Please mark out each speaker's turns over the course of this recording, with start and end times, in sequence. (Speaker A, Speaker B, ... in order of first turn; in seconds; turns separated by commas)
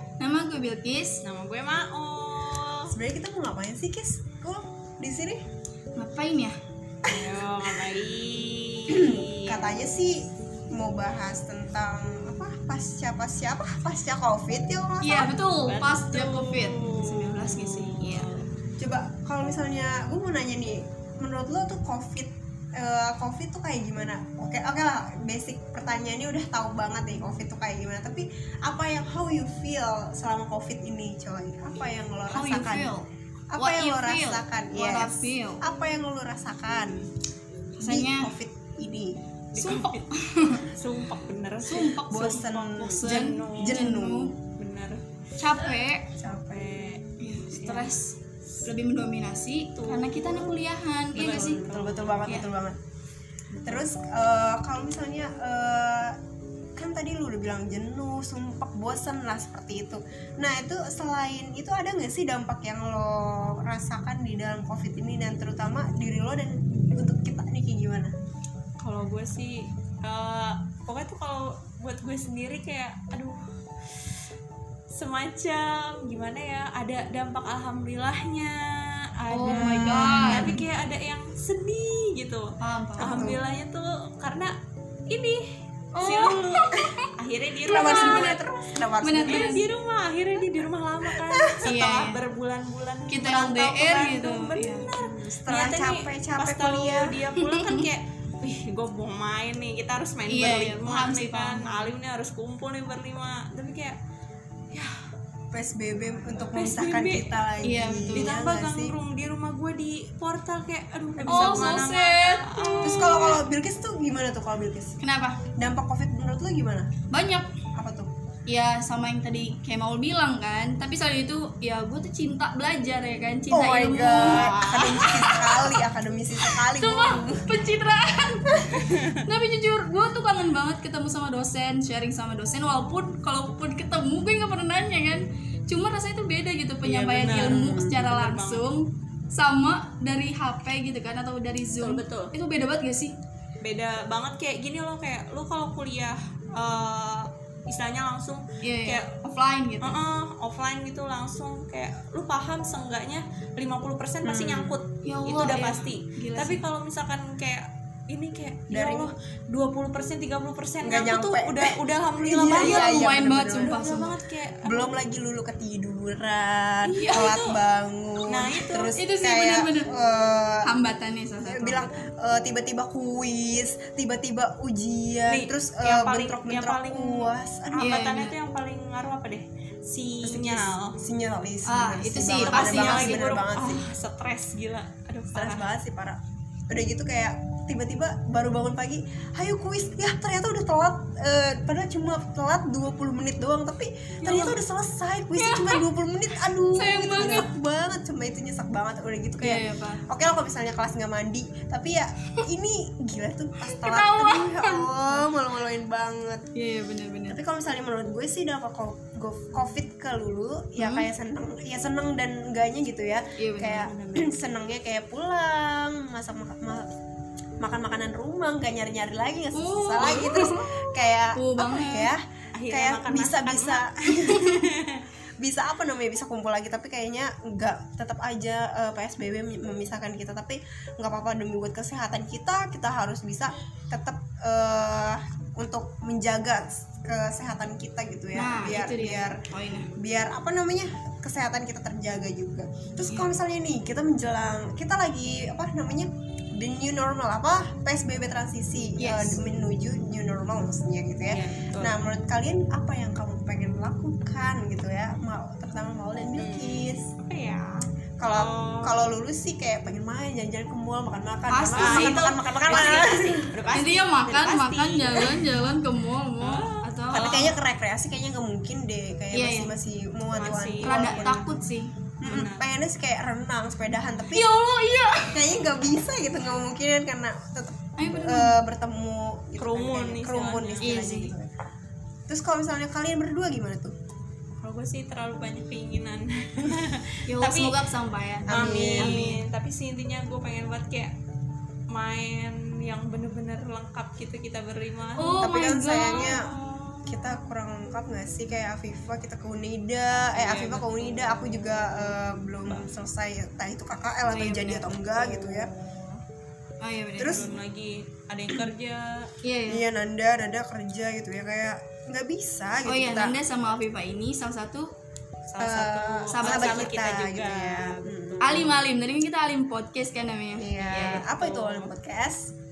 Speaker A: 0.2-1.2, Speaker B: 1.2-2.9, Speaker C: 2.9-5.4, Speaker A: 6.0-6.6, Speaker B: 7.1-9.7, Speaker C: 7.1-7.9, Speaker C: 8.9-15.4, Speaker A: 15.0-18.4, Speaker B: 15.7-18.5, Speaker C: 18.8-32.9, Speaker A: 32.3-35.6, Speaker C: 33.5-37.0, Speaker A: 37.8-38.3, Speaker C: 37.8-39.1, Speaker B: 39.5-40.1, Speaker A: 39.5-40.7, Speaker B: 40.6-43.8, Speaker A: 41.7-44.4, Speaker C: 42.1-44.3, Speaker B: 44.5-45.0, Speaker A: 45.4-46.1, Speaker C: 46.2-46.6, Speaker B: 46.3-48.0, Speaker A: 47.2-51.6, Speaker B: 49.7-50.6, Speaker B: 51.1-52.5, Speaker C: 51.3-52.8, Speaker B: 53.5-53.9, Speaker C: 53.7-56.2, Speaker C: 56.8-68.1, Speaker B: 68.8-73.4, Speaker B: 74.9-78.6, Speaker B: 79.2-82.5, Speaker A: 79.3-80.6, Speaker C: 79.4-80.6, Speaker A: 82.6-83.2, Speaker B: 83.0-84.5, Speaker C: 83.0-83.4, Speaker B: 85.1-85.4, Speaker A: 86.0-87.1, Speaker B: 86.0-104.0, Speaker A: 87.7-88.4, Speaker C: 87.7-89.5, Speaker A: 89.0-89.7, Speaker C: 91.3-91.6, Speaker A: 91.6-92.2, Speaker A: 93.1-94.9, Speaker C: 95.0-97.2, Speaker A: 97.3-97.9, Speaker A: 100.3-101.9, Speaker C: 105.5-109.0, Speaker B: 106.5-107.3, Speaker A: 107.6-108.3, Speaker B: 108.1-113.3, Speaker C: 111.2-111.9, Speaker A: 111.3-113.4, Speaker C: 112.8-115.0, Speaker A: 115.0-115.4, Speaker C: 115.6-116.9, Speaker A: 117.1-117.5, Speaker C: 117.8-118.1, Speaker A: 118.5-124.5, Speaker C: 123.5-127.6, Speaker B: 124.1-125.2, Speaker A: 125.0-125.8, Speaker A: 126.4-143.2, Speaker B: 128.8-129.1, Speaker B: 136.8-138.7, Speaker B: 141.8-142.3, Speaker B: 143.6-149.1, Speaker A: 148.6-150.0, Speaker B: 149.8-164.9, Speaker C: 154.2-154.8, Speaker A: 155.0-156.6, Speaker C: 158.7-159.1, Speaker C: 160.8-163.9, Speaker A: 162.5-164.2, Speaker C: 164.6-170.7, Speaker A: 166.8-167.4, Speaker B: 166.9-167.6, Speaker B: 168.3-169.0, Speaker A: 168.9-169.9, Speaker A: 170.6-172.0, Speaker C: 171.4-178.0, Speaker B: 175.3-180.9, Speaker A: 177.8-178.3, Speaker C: 180.2-183.8, Speaker A: 181.7-183.2, Speaker B: 182.4-185.7, Speaker C: 185.3-206.5, Speaker A: 194.2-194.6, Speaker A: 195.4-195.8, Speaker A: 196.7-197.5, Speaker A: 199.4-200.0, Speaker A: 203.6-204.9, Speaker A: 206.6-207.4, Speaker C: 207.3-216.9, Speaker A: 210.8-211.1, Speaker A: 213.4-213.9, Speaker B: 213.8-214.3, Speaker C: 217.6-224.7, Speaker A: 219.6-222.1, Speaker B: 222.6-225.0, Speaker C: 225.4-239.4, Speaker A: 238.3-239.9, Speaker C: 240.0-257.1, Speaker A: 249.0-249.4, Speaker B: 251.3-252.0, Speaker B: 256.4-259.1, Speaker C: 258.2-263.5, Speaker A: 261.5-263.0, Speaker B: 261.7-265.5, Speaker A: 263.7-267.5, Speaker B: 266.4-267.5, Speaker C: 267.1-271.3, Speaker A: 269.3-269.7, Speaker B: 270.3-271.5, Speaker A: 270.8-271.9, Speaker C: 272.2-274.5, Speaker B: 272.2-272.6, Speaker A: 274.3-275.4, Speaker C: 275.3-281.5, Speaker A: 278.0-278.6, Speaker B: 279.6-281.1, Speaker A: 280.8-281.3, Speaker C: 282.3-283.9, Speaker B: 284.6-287.8, Speaker A: 287.3-289.4, Speaker C: 288.5-289.3, Speaker B: 288.5-291.1, Speaker B: 291.9-295.4, Speaker A: 295.2-296.4, Speaker C: 295.4-296.5, Speaker B: 296.1-297.3, Speaker C: 297.1-305.7, Speaker B: 300.4-302.1, Speaker B: 302.7-302.9, Speaker A: 304.3-304.9, Speaker B: 305.1-305.8, Speaker A: 306.8-307.5, Speaker C: 307.2-307.4, Speaker B: 307.3-309.3, Speaker A: 309.4-309.9, Speaker C: 309.7-313.4, Speaker A: 312.9-314.9, Speaker B: 315.5-318.8, Speaker C: 315.6-318.7, Speaker A: 316.3-316.9, Speaker A: 318.4-321.3, Speaker C: 320.6-322.5, Speaker B: 320.9-321.9